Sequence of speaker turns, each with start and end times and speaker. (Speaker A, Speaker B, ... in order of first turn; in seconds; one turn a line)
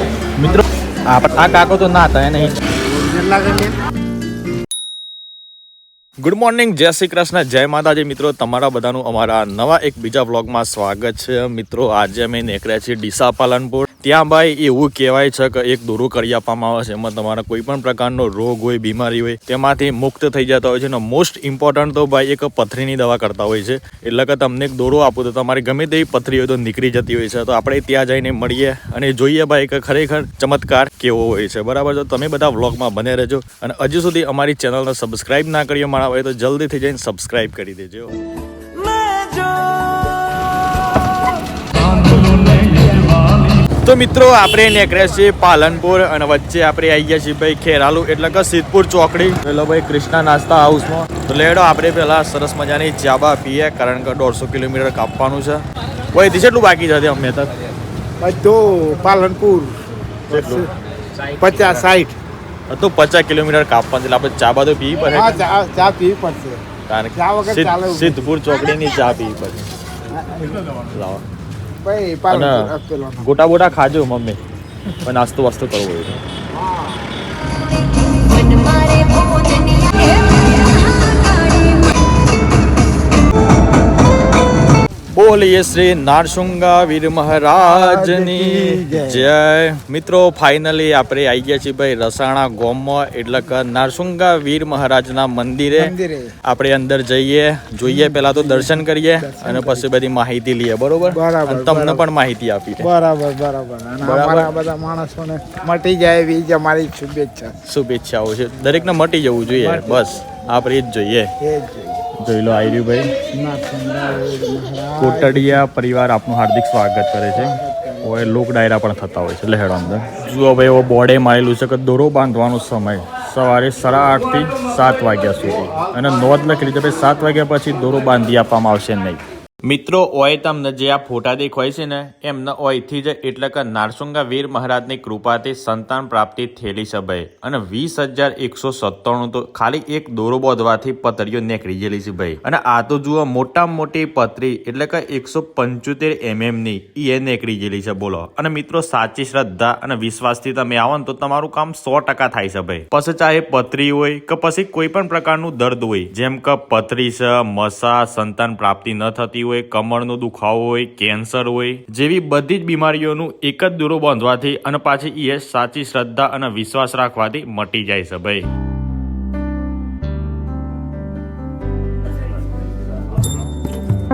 Speaker A: 0.4-2.6
Speaker B: 2.9-3.7
Speaker A: 6.2-38.1
Speaker A: 43.8-57.5
Speaker B: 58.2-59.8
Speaker A: 60.3-60.7
Speaker B: 60.3-60.7
Speaker B: 61.3-62.2
Speaker A: 62.7-65.4
Speaker B: 65.1-66.6
Speaker A: 66.9-69.7
Speaker B: 67.1-68.2
Speaker B: 70.1-70.6
Speaker A: 70.9-71.2
Speaker B: 71.8-73.3
Speaker A: 72.3-74.4
Speaker A: 75.0-76.2
Speaker B: 76.5-77.2
Speaker A: 85.1-95.9
Speaker B: 87.6-89.3
Speaker B: 95.7-96.3
Speaker A: 96.4-102.9
Speaker B: 97.8-99.8
Speaker B: 101.1-102.0
Speaker B: 102.8-107.5
Speaker A: 104.0-104.5
Speaker A: 107.7-111.3
Speaker B: 109.5-110.1
Speaker B: 111.4-112.0
Speaker A: 112.2-113.1
Speaker B: 113.3-115.6
Speaker A: 115.0-168.5
Speaker B: 117.3-118.2